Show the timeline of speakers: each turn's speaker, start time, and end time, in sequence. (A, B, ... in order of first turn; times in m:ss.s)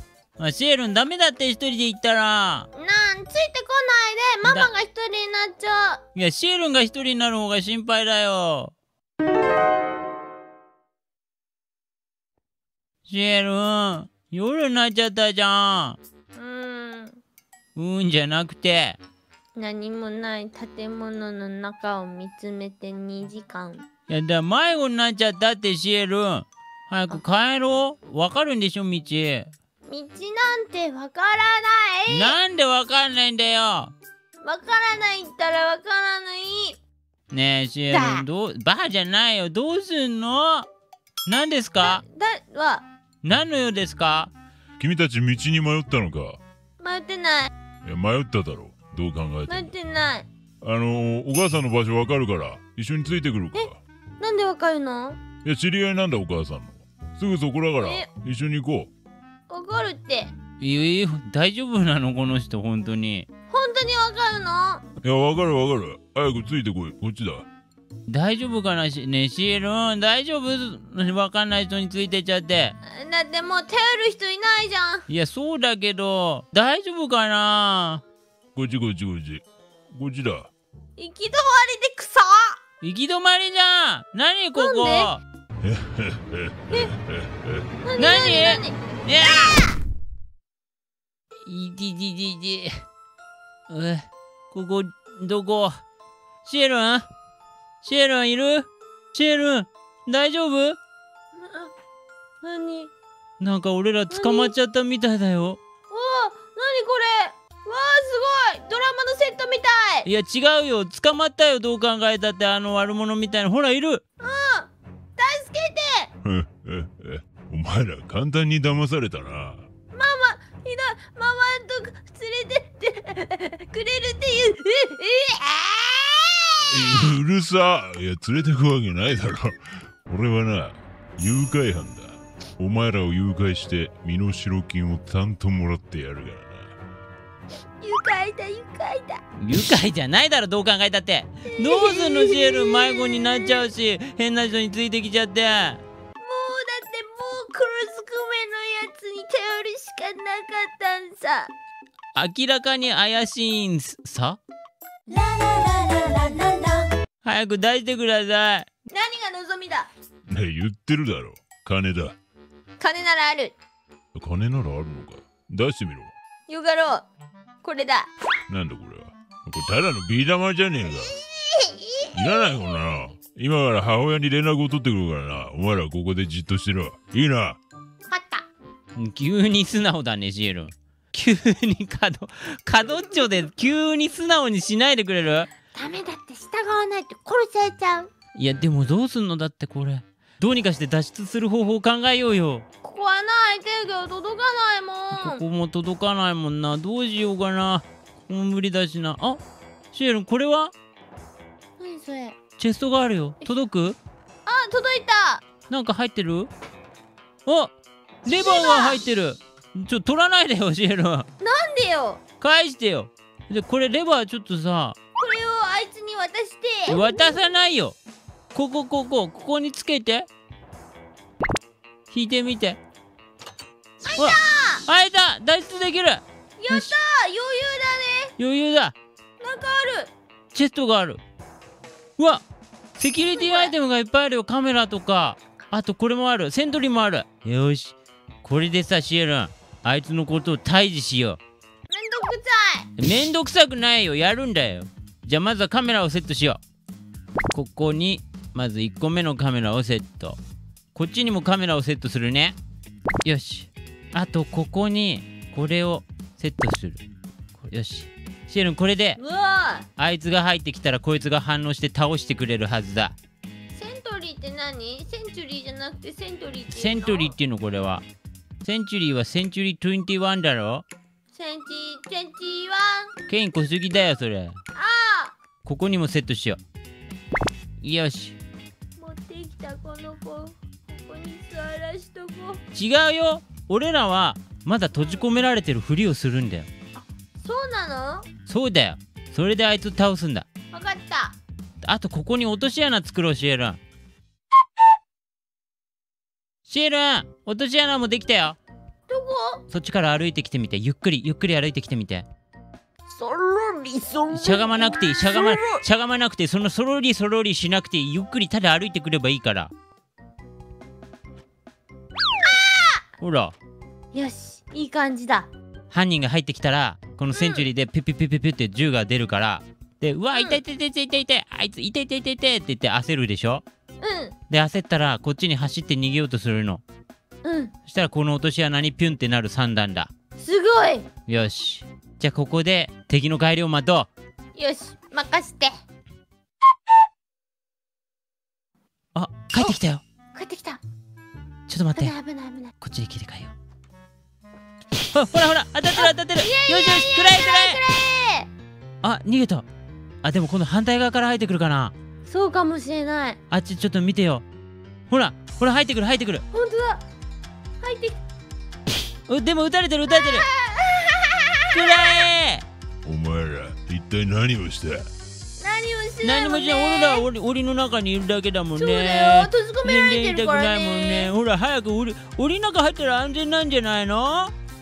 0:00.4-0:02.7 A
0:02.7-0:06.0 B
0:04.4-0:04.7 A
0:06.1-0:08.7 A
0:13.1-0:16.0 A
0:16.3-0:17.2 B
0:17.7-0:19.0 A
0:19.6-0:23.8 B
0:24.1-0:29.5 A
0:29.9-0:32.4 B
0:32.1-0:33.9 A
0:34.4-0:36.8 B
0:37.3-0:40.7 A
0:37.9-0:38.2 B
0:41.2-0:42.0 A
0:41.8-0:42.9 B
0:43.2-0:44.3 A
0:44.8-0:46.4 C
0:46.8-0:47.5 B
0:47.8-0:49.6 C
0:49.5-0:50.3 B
0:50.6-0:53.8 C
0:53.5-0:55.2 B
0:55.4-0:58.9 C
0:57.8-0:58.1 B
0:59.5-1:00.3 B
1:00.6-1:03.3 A
1:03.5-1:04.8 B
1:05.0-1:07.4 C
1:08.1-1:12.7 A
1:12.8-1:15.0 B
1:15.1-1:18.0 A
1:18.5-1:20.5 C
1:21.0-1:22.6 B
1:22.8-1:25.2 A
1:24.6-1:25.1 B
1:25.6-1:27.6 C
1:27.8-1:28.8 B
1:28.0-1:29.6 A
1:31.4-1:32.8 A
1:33.7-1:35.8 A
1:36.4-1:37.0 A
1:37.8-1:40.8 A
1:41.4-1:41.7 B
1:42.4-1:42.9 B
1:43.4-1:45.6 A
1:44.1-1:44.5 B
1:45.9-1:50.1 B
1:50.0-1:54.0 A
1:54.2-1:56.1 B
1:56.2-1:59.6 C
1:59.9-2:07.1 B
2:06.6-2:16.7 C
2:17.8-2:19.2 B
2:19.4-2:25.8 A
2:21.5-2:23.7 B
2:26.2-2:31.5 B
2:32.1-2:34.4 A
2:35.1-2:36.9 B
2:37.2-2:38.7 A
2:38.9-2:39.9 B
2:40.3-2:42.1 C
2:42.8-2:43.5 B
2:44.1-2:46.1 C
2:46.5-2:47.0 B
2:47.6-2:48.1 B
2:48.5-2:51.2 C
2:51.2-2:52.4 B
2:52.1-2:57.6 C
2:58.1-2:58.4 B
2:58.9-3:05.5 A
3:05.7-3:08.1 B
3:08.4-3:12.6 A
3:12.8-3:15.4 B
3:15.1-3:19.4 A
3:19.9-3:20.7 A
3:21.8-3:22.4 B
3:22.6-3:24.0 A
3:24.4-3:25.4 B
3:25.7-3:26.5 A
3:27.4-3:27.7 A
3:28.2-3:31.2 A
3:28.2-3:29.0 B
3:31.4-3:32.2 B
3:32.4-3:35.0 A
3:35.2-3:37.3 B
3:36.9-3:38.0 A
3:38.5-3:40.3 A
3:42.1-3:42.8 A
3:44.0-3:44.8 B
3:44.2-3:46.9 A
3:46.6-3:48.3 B
3:48.4-3:48.9 A
3:49.4-3:50.1 B
3:50.5-3:51.2 A
3:52.2-3:52.4 A
3:53.0-4:01.4 A
3:53.3-3:53.7 B
4:01.9-4:02.9 B
4:03.0-4:06.6 A
4:07.5-4:10.4 A
4:10.9-4:12.6 A
4:13.2-4:17.0 A
4:17.5-4:19.2 A
4:19.2-4:19.9 B
4:20.0-4:23.2 A
4:23.7-4:27.3 B
4:26.7-4:28.0 A
4:28.6-4:30.8 A
4:31.3-4:33.1 B
4:33.2-4:34.6 A
4:34.7-4:35.3 B
4:35.6-4:36.6 A
4:37.8-4:38.4 A
4:39.0-4:42.6 B
4:42.7-4:46.7 A
4:47.4-4:48.3 B
4:48.5-4:50.5 A
4:50.7-4:51.4 B
4:51.8-4:53.8 A
4:56.7-4:58.6 A
4:59.1-4:59.6 B
4:59.7-5:02.2 A
5:03.1-5:05.8 B
5:04.3-5:09.7 A
5:12.4-5:13.0 B
5:13.2-5:13.5 A
5:14.1-5:15.5 B
5:15.9-5:23.6 A
5:17.3-5:17.7 B
5:20.3-5:20.6 B
5:24.0-5:24.3 B
5:24.5-5:26.8 A
5:27.4-5:27.7 B
5:27.8-5:30.1 A
5:30.4-5:31.1 B
5:31.3-5:34.1 A
5:34.6-5:35.8 B
5:39.1-5:40.0 A
5:40.3-5:40.8 B
5:41.7-5:42.1 A
5:42.0-5:42.7 B
5:42.8-5:43.5 A
5:45.0-5:47.8 A
5:45.9-5:48.5 B
5:49.0-5:49.6 A
5:50.2-5:51.9 A
5:52.3-5:53.4 B
5:53.5-5:54.4 A
5:55.1-5:56.4 A
5:56.5-5:57.0 B
5:57.8-5:58.2 B
5:59.3-6:00.5 A
6:00.1-6:02.3 B
6:01.7-6:02.6 A
6:03.0-6:05.1 C
6:05.6-6:07.2 B
6:06.2-6:14.5 A
6:08.8-6:11.3 B